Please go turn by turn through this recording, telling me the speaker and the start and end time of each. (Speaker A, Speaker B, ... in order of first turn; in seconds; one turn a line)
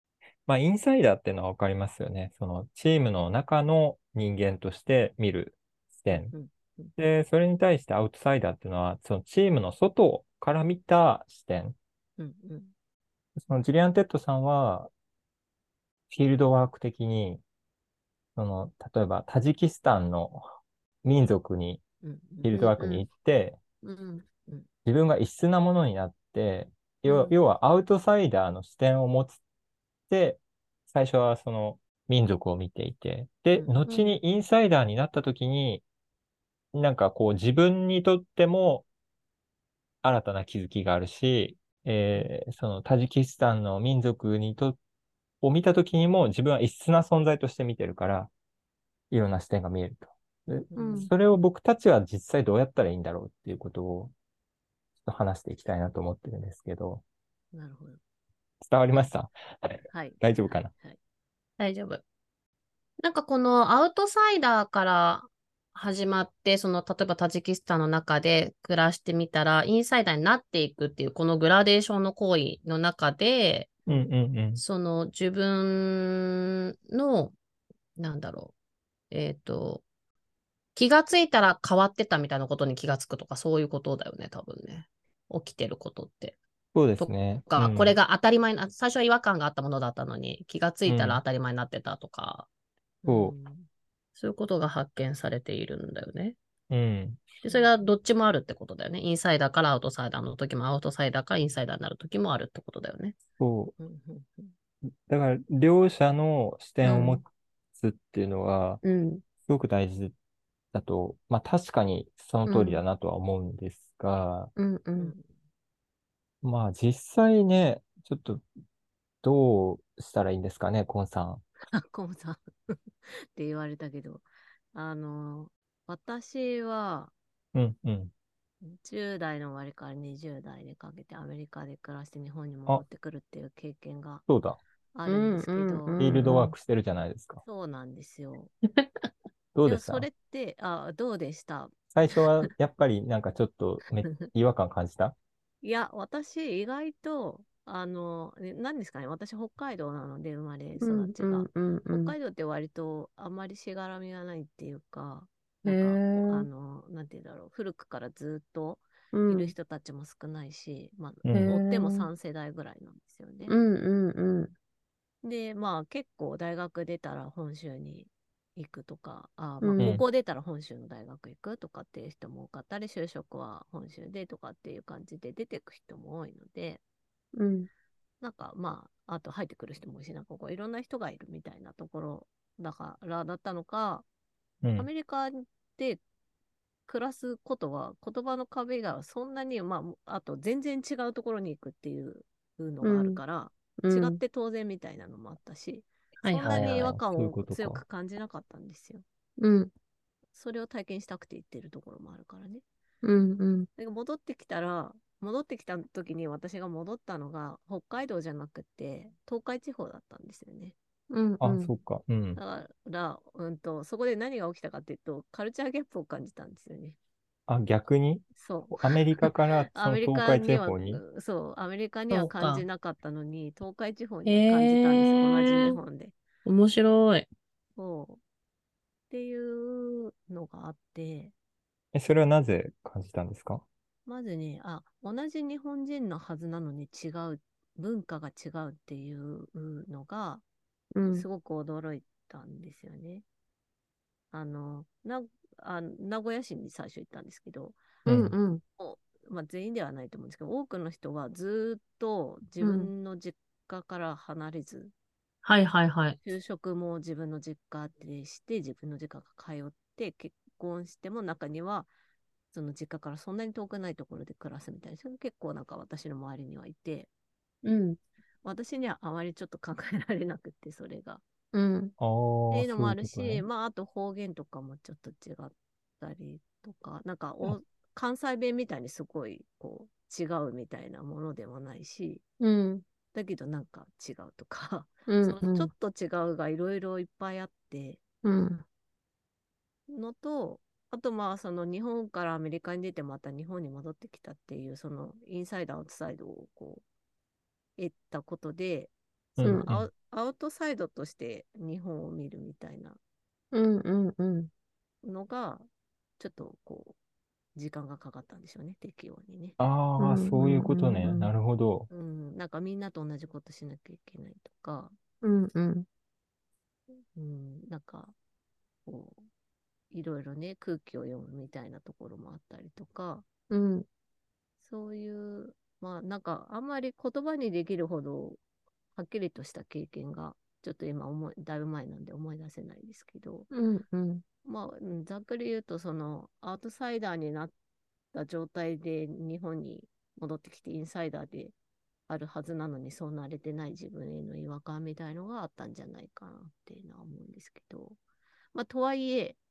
Speaker A: 0.5-6.3
Speaker B: 6.1-6.9
Speaker A: 7.0-11.8
Speaker B: 12.2-12.7
Speaker A: 13.4-14.9
Speaker A: 16.1-17.4
Speaker A: 18.4-20.4
Speaker A: 21.0-21.8
Speaker B: 22.0-22.6
Speaker A: 22.4-23.6
Speaker C: 22.5-23.1
Speaker C: 23.8-24.2
Speaker A: 24.9-29.4
Speaker C: 27.1-27.4
Speaker A: 30.1-35.8
Speaker B: 33.5-33.9
Speaker A: 36.7-38.9
Speaker A: 40.0-44.8
Speaker A: 45.4-48.3
Speaker A: 49.1-54.1
Speaker B: 50.7-51.1
Speaker C: 50.8-51.1
Speaker A: 55.0-57.0
Speaker B: 57.5-58.0
Speaker A: 58.6-60.7
Speaker B: 59.9-61.0
Speaker C: 61.6-62.0
Speaker C: 63.0-73.9
Speaker A: 73.9-74.6
Speaker C: 74.6-77.3
Speaker C: 78.0-78.5
Speaker C: 79.1-79.8
Speaker C: 80.8-86.4
Speaker A: 86.8-88.0
Speaker C: 87.0-92.5
Speaker A: 90.9-91.2
Speaker B: 93.0-93.7
Speaker A: 93.1-93.3
Speaker C: 94.2-96.4
Speaker A: 96.7-97.3
Speaker C: 97.4-103.2
Speaker B: 97.5-97.7
Speaker A: 103.4-103.8
Speaker B: 103.8-104.5
Speaker A: 105.1-108.8
Speaker C: 106.8-107.2
Speaker C: 108.8-109.2
Speaker A: 109.4-110.1
Speaker A: 110.7-114.5
Speaker C: 112.5-112.8
Speaker C: 114.6-115.1
Speaker B: 115.0-115.3
Speaker A: 116.4-118.5
Speaker A: 119.2-121.4
Speaker B: 121.7-127.1
Speaker A: 127.5-128.1
Speaker B: 128.6-134.2
Speaker A: 134.3-134.6
Speaker B: 134.9-136.1
Speaker C: 135.1-136.6
Speaker A: 136.0-137.4
Speaker B: 137.4-138.5
Speaker A: 139.6-140.1
Speaker B: 139.6-141.7
Speaker A: 141.9-145.2
Speaker B: 145.6-163.5
Speaker C: 150.8-152.2
Speaker C: 155.7-156.5
Speaker C: 159.1-159.5
Speaker A: 161.2-161.5
Speaker C: 161.3-162.1
Speaker C: 163.5-164.5
Speaker B: 165.2-176.8
Speaker C: 169.6-169.9
Speaker A: 169.8-170.0
Speaker C: 177.3-177.7
Speaker B: 178.2-184.1
Speaker A: 184.6-184.9
Speaker B: 184.8-186.0
Speaker B: 186.9-199.1
Speaker C: 192.8-193.2
Speaker C: 193.8-194.2
Speaker C: 196.2-196.7
Speaker A: 196.4-197.8
Speaker C: 199.4-199.7
Speaker B: 200.3-202.6
Speaker C: 203.0-203.7
Speaker B: 203.8-210.8
Speaker C: 211.1-211.7
Speaker A: 211.4-212.4
Speaker B: 212.3-217.0
Speaker A: 217.5-221.0
Speaker B: 218.4-218.8
Speaker B: 219.7-226.2
Speaker C: 222.1-222.7
Speaker C: 224.3-225.8
Speaker C: 226.4-227.3
Speaker B: 227.8-228.2
Speaker B: 229.1-231.3
Speaker A: 231.9-233.6
Speaker B: 234.1-240.4
Speaker C: 240.9-241.3
Speaker B: 241.1-243.2
Speaker B: 244.3-248.0
Speaker A: 248.1-248.3
Speaker C: 248.1-248.6
Speaker B: 248.8-254.9
Speaker C: 252.6-252.9
Speaker C: 255.4-256.2
Speaker B: 256.2-261.9
Speaker B: 262.5-267.1
Speaker C: 267.6-268.0
Speaker B: 268.4-271.2
Speaker C: 271.5-271.9
Speaker A: 272.0-273.4
Speaker B: 272.5-282.2
Speaker C: 282.4-282.8
Speaker B: 283.1-288.0
Speaker C: 285.1-285.7
Speaker C: 288.2-288.6
Speaker B: 289.9-296.8
Speaker B: 297.8-303.0
Speaker A: 299.4-299.9
Speaker C: 299.4-299.7
Speaker C: 303.5-304.5
Speaker B: 305.0-305.7
Speaker B: 306.2-307.0
Speaker B: 307.6-309.6
Speaker A: 309.6-311.9
Speaker C: 310.0-311.3
Speaker B: 311.9-314.9
Speaker C: 315.2-315.9
Speaker B: 317.1-318.1
Speaker B: 318.9-319.2
Speaker B: 319.9-323.3
Speaker C: 323.5-323.9
Speaker B: 324.6-328.4
Speaker B: 328.9-333.5
Speaker C: 333.5-334.2
Speaker B: 334.4-337.5
Speaker B: 338.1-341.6
Speaker B: 342.1-348.0
Speaker B: 348.5-349.4